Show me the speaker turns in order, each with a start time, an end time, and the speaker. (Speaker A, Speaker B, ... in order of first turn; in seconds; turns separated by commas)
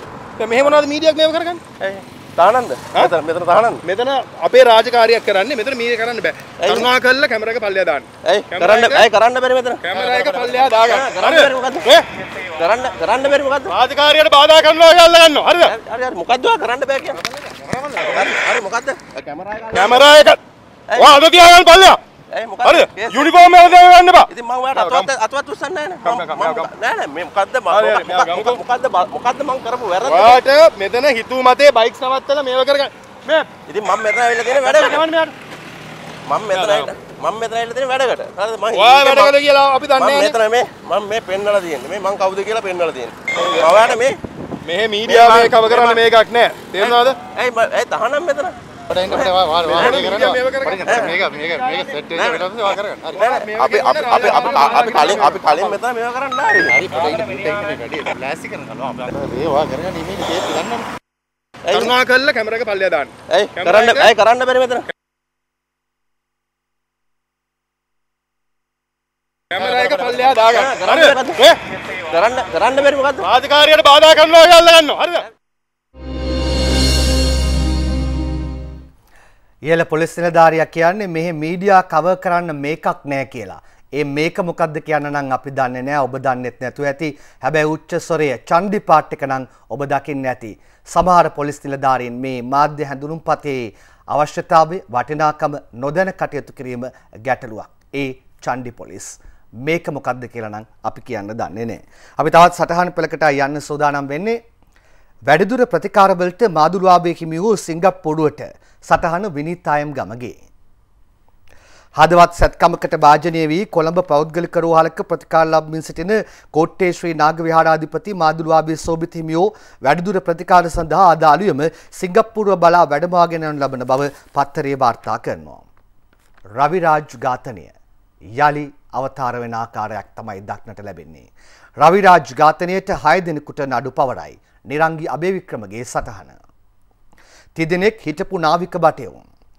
Speaker A: 0.4-1.6, Speaker B: 1.8-3.8, Speaker A: 3.8-9.1, Speaker B: 6.6-6.9, Speaker B: 8.2-11.9, Speaker A: 9.8-12.1, Speaker B: 12.6-13.7, Speaker A: 13.7-15.7, Speaker B: 15.7-17.2, Speaker A: 17.6-18.3, Speaker B: 18.0-20.0, Speaker A: 19.6-20.4, Speaker B: 20.9-21.1, Speaker A: 20.9-22.0, Speaker B: 22.3-23.4, Speaker A: 22.6-25.1, Speaker B: 24.3-30.4, Speaker A: 26.0-26.7, Speaker A: 27.7-28.6, Speaker A: 30.0-33.5, Speaker B: 33.7-35.0, Speaker A: 34.6-35.3, Speaker B: 36.3-39.4, Speaker A: 36.5-36.9, Speaker A: 38.7-40.4, Speaker B: 40.0-44.2, Speaker A: 43.4-43.7, Speaker A: 44.6-47.2, Speaker B: 45.0-46.0, Speaker B: 46.8-51.2, Speaker A: 48.9-55.8, Speaker B: 52.1-57.6, Speaker A: 56.7-57.8, Speaker A: 60.5-60.7, Speaker B: 61.6-61.9, Speaker A: 61.7-64.1, Speaker B: 63.3-64.8, Speaker A: 69.5-71.6, Speaker B: 69.6-71.4, Speaker B: 72.1-73.3, Speaker A: 73.2-75.2, Speaker C: 79.6-104.4, Speaker C: 105.2-110.4, Speaker C: 112.0-125.6, Speaker C: 126.5-127.7, Speaker C: 128.3-131.3, Speaker C: 131.8-136.4, Speaker C: 137.5-139.2